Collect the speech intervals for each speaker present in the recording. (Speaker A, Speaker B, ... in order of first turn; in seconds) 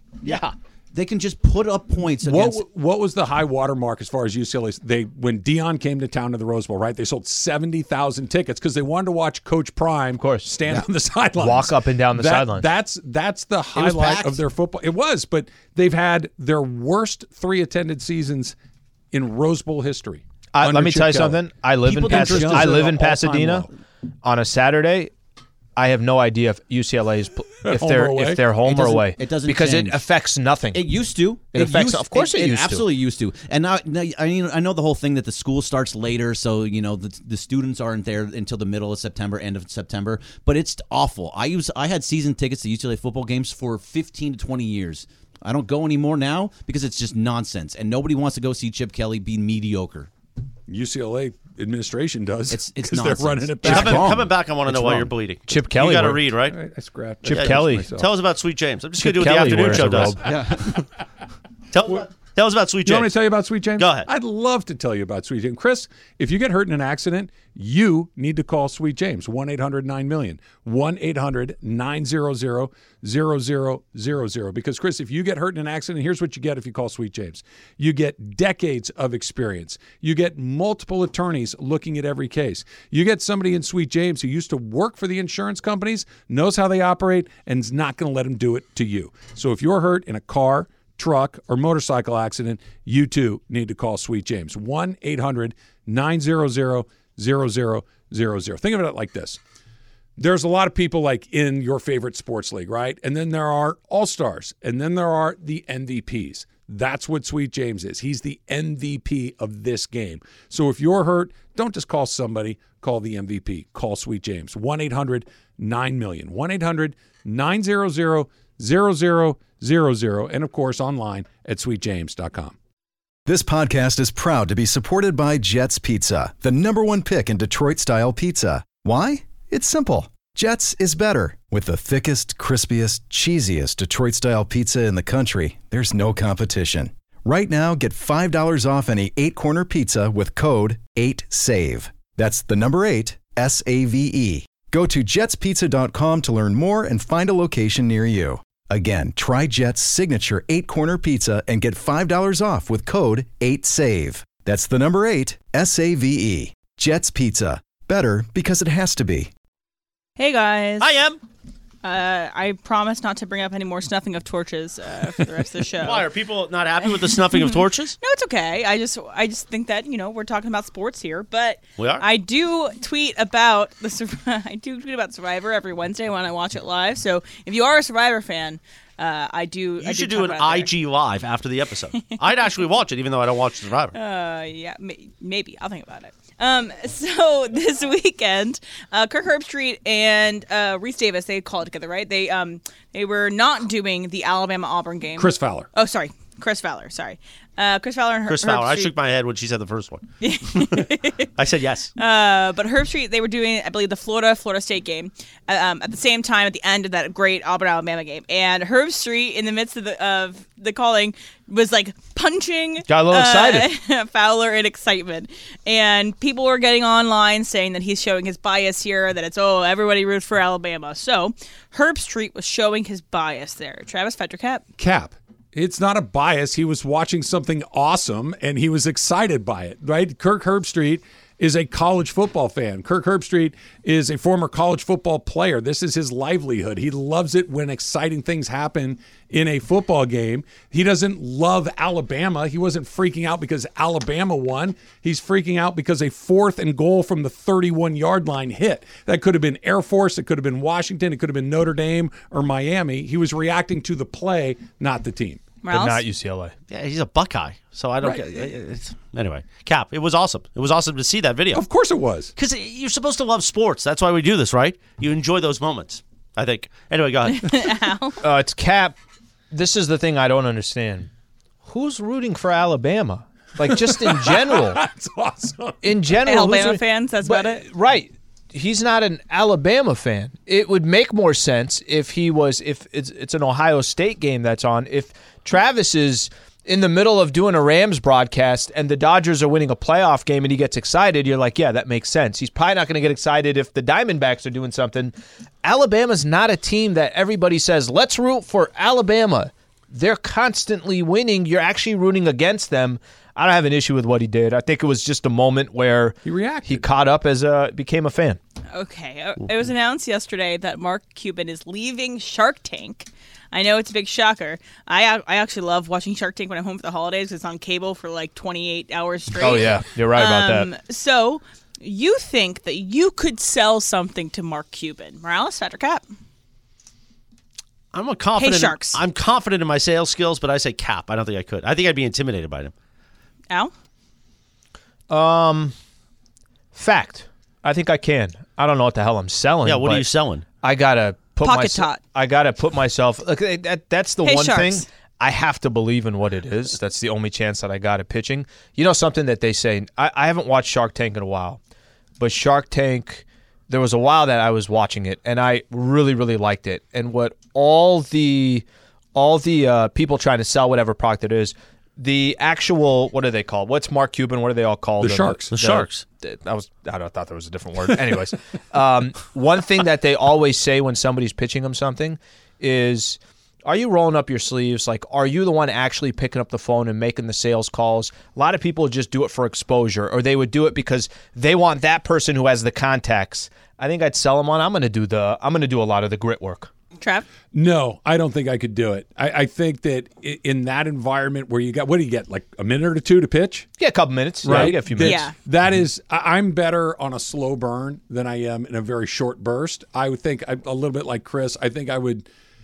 Speaker A: 0.2-2.6, 13.7-14.4, 21.9-23.1, 28.6-30.0, 30.7-50.1, 52.5-54.3, 60.2-60.7
Speaker B: 2.2-18.5, 19.1-23.7, 27.6-28.5, 50.7-55.0, 56.5-58.0, 62.8-99.4, 100.2-122.5, 195.2-195.7, 224.8-255.5, 261.5-262.3, 273.6-275.9, 306.2-306.8, 365.0-365.5, 387.5-393.7, 394.4-402.3
Speaker C: 10.2-10.6, 11.4-12.7, 20.5-23.7, 24.2-25.1, 25.8-30.9, 31.5-32.9, 55.5-56.3, 57.2-57.9, 59.0-60.3, 212.9-213.7, 255.7-256.5, 268.2-268.9, 269.5-271.1, 271.6-274.8, 275.8-308.4, 319.4-320.7, 335.1-335.7, 336.7-340.1, 340.6-351.6, 352.2-386.7, 393.8-395.2
Speaker D: 53.6-56.5, 57.3-60.2, 61.7-63.2, 63.8-64.1, 160.8-161.2, 165.8-168.0, 171.8-172.1, 179.8-184.0, 198.3-200.8, 201.4-201.9, 256.7-261.6, 262.4-267.7, 327.9-332.7, 339.6-340.4, 365.5-366.0
Speaker E: 123.2-159.3
Speaker F: 160.2-160.9, 161.8-166.1, 166.9-180.7, 183.9-198.9, 200.2-201.3, 202.0-224.6, 255.6-256.0, 267.2-268.2, 276.2-277.6, 308.7-326.0, 328.4-329.0, 341.4-342.0, 344.2-344.9, 387.0-387.3, 394.5-395.4